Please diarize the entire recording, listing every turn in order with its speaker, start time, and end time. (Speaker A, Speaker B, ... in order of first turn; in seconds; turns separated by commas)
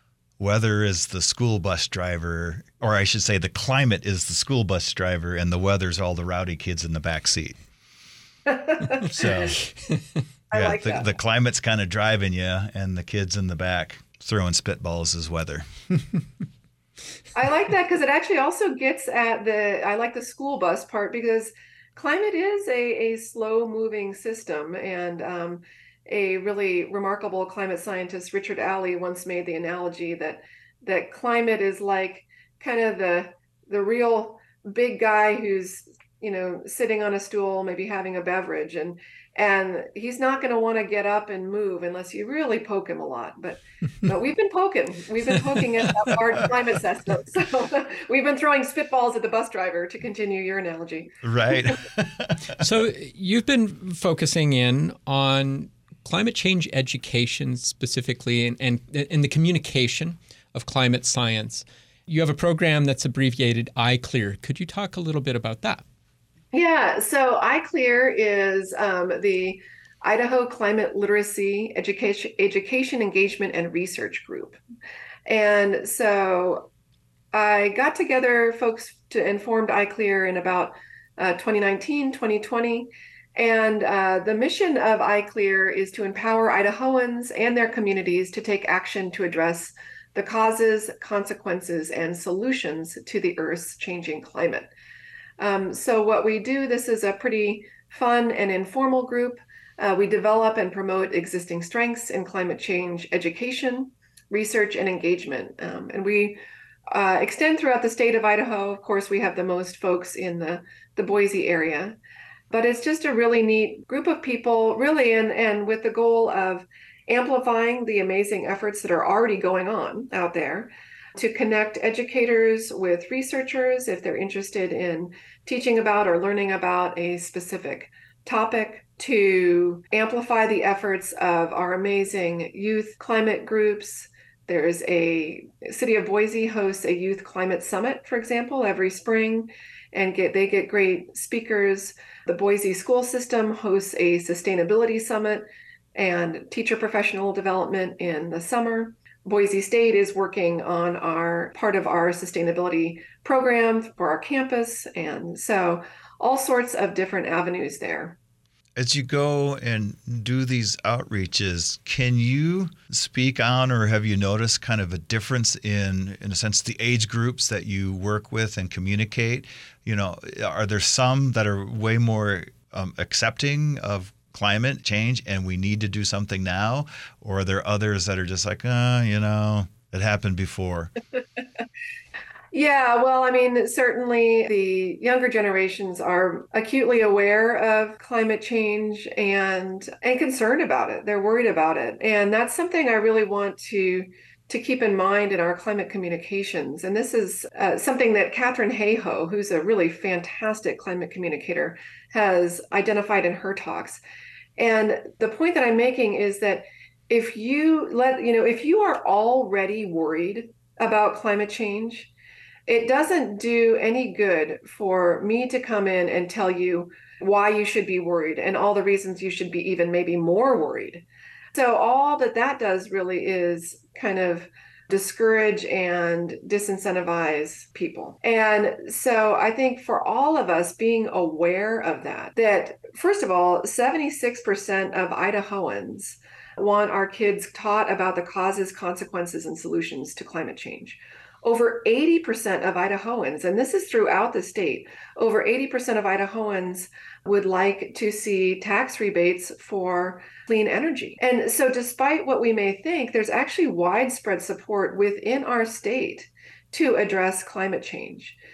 Speaker A: 0.4-7.6, Speaker B: 8.5-9.5, Speaker A: 9.0-9.6, Speaker C: 9.8-10.2, Speaker B: 10.5-11.1, Speaker A: 10.5-15.6, Speaker B: 17.3-51.8, Speaker A: 51.2-52.6, Speaker C: 52.6-65.8, Speaker B: 66.5-74.6, Speaker B: 75.3-76.7, Speaker B: 77.3-94.7, Speaker B: 95.4-112.0, Speaker B: 112.5-145.4, Speaker B: 145.9-158.2, Speaker A: 158.8-180.9, Speaker B: 182.5-204.0, Speaker B: 204.6-212.1, Speaker B: 212.7-258.4